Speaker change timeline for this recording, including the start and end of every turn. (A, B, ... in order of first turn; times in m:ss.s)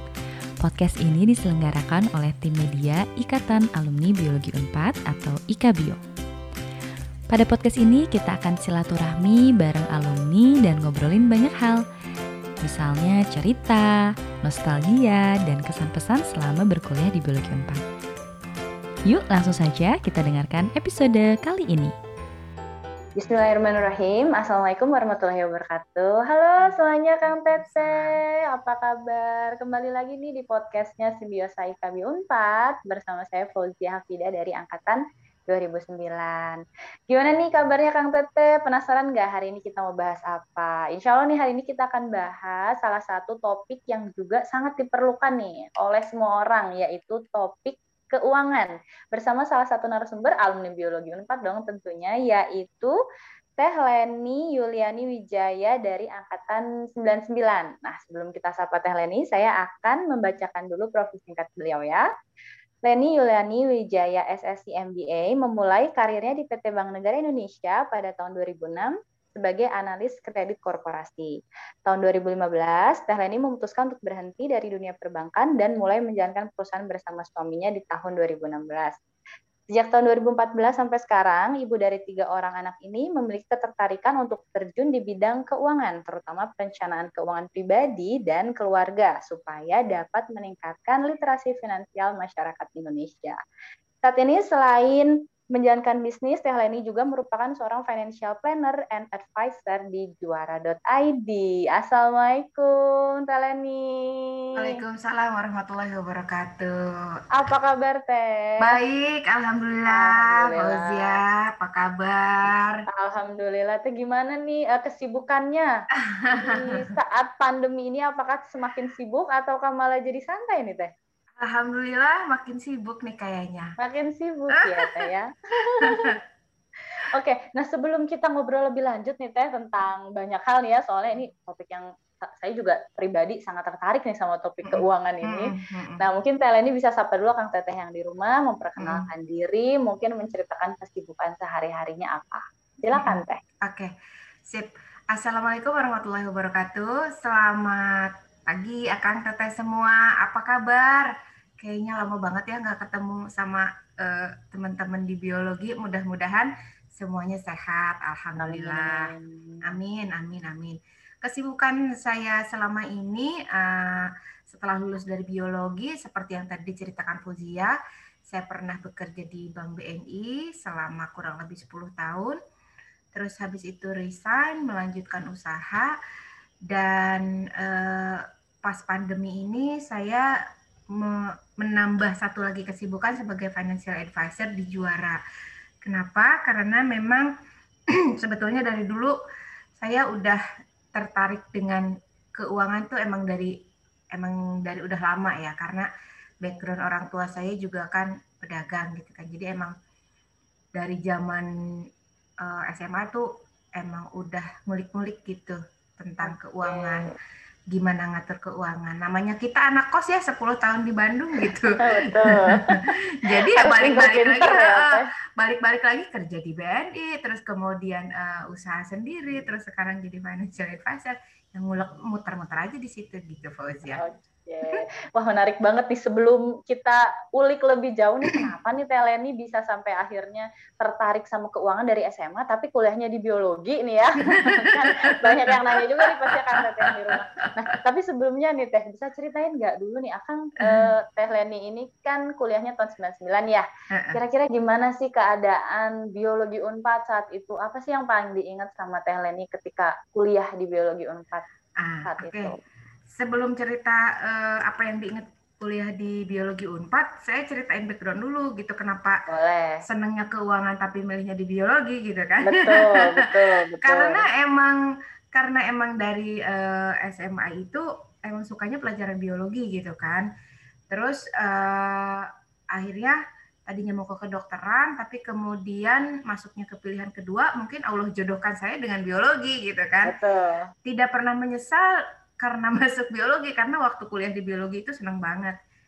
0:00.6-0:06.0 A
0:07.3-0:11.8 A
0:12.6-0:17.8 A
0:19.0-0:21.9 A
0:23.2-0:52.9 B
0:26.6-0:28.2 C
0:53.6-1:02.1 B
1:02.8-1:19.0 B
1:19.7-1:33.4 B
1:34.0-1:44.8 B
1:44.6-1:46.8 C
1:47.3-1:48.8 B
1:48.6-1:52.8 C
1:49.9-1:51.2 B
1:52.9-1:55.7 B
1:56.1-1:56.9 C
1:56.3-2:00.9 B
2:01.4-2:03.8 C
2:03.8-2:06.1 B
2:04.6-2:05.0 C
2:05.8-2:06.1 C
2:07.1-2:23.4 B
2:14.6-2:16.0 C
2:18.8-2:19.1 C
2:23.0-2:23.9 C
2:24.5-2:39.1 C
2:38.4-2:39.7 B
2:39.6-2:47.8 C
2:48.3-2:52.4 C
2:53.1-2:55.9 C
2:56.7-3:00.2 C
3:00.9-3:05.2 C
3:05.8-3:07.3 C
3:08.2-3:09.1 C
3:09.8-3:10.4 C
3:10.9-3:13.5 C
3:14.1-3:15.9 C
3:16.4-3:19.7 C
3:20.8-3:21.5 C
3:22.4-3:23.2 C
3:23.8-3:27.1 C
3:26.2-3:27.2 B
3:27.7-3:44.0 C
3:31.8-3:35.1 B
3:44.0-4:11.4 B
3:54.3-3:57.5 C
4:00.6-4:00.9 C
4:03.9-4:04.2 C
4:11.8-4:12.5 C
4:12.1-4:12.6 B
4:13.1-4:19.2 C
4:19.3-4:19.8 B
4:19.9-4:24.8 C
4:22.4-4:24.3 B
4:25.3-4:30.3 C
4:30.9-4:40.1 C
4:40.0-4:40.7 B
4:40.8-4:41.9 C
4:42.4-4:45.6 C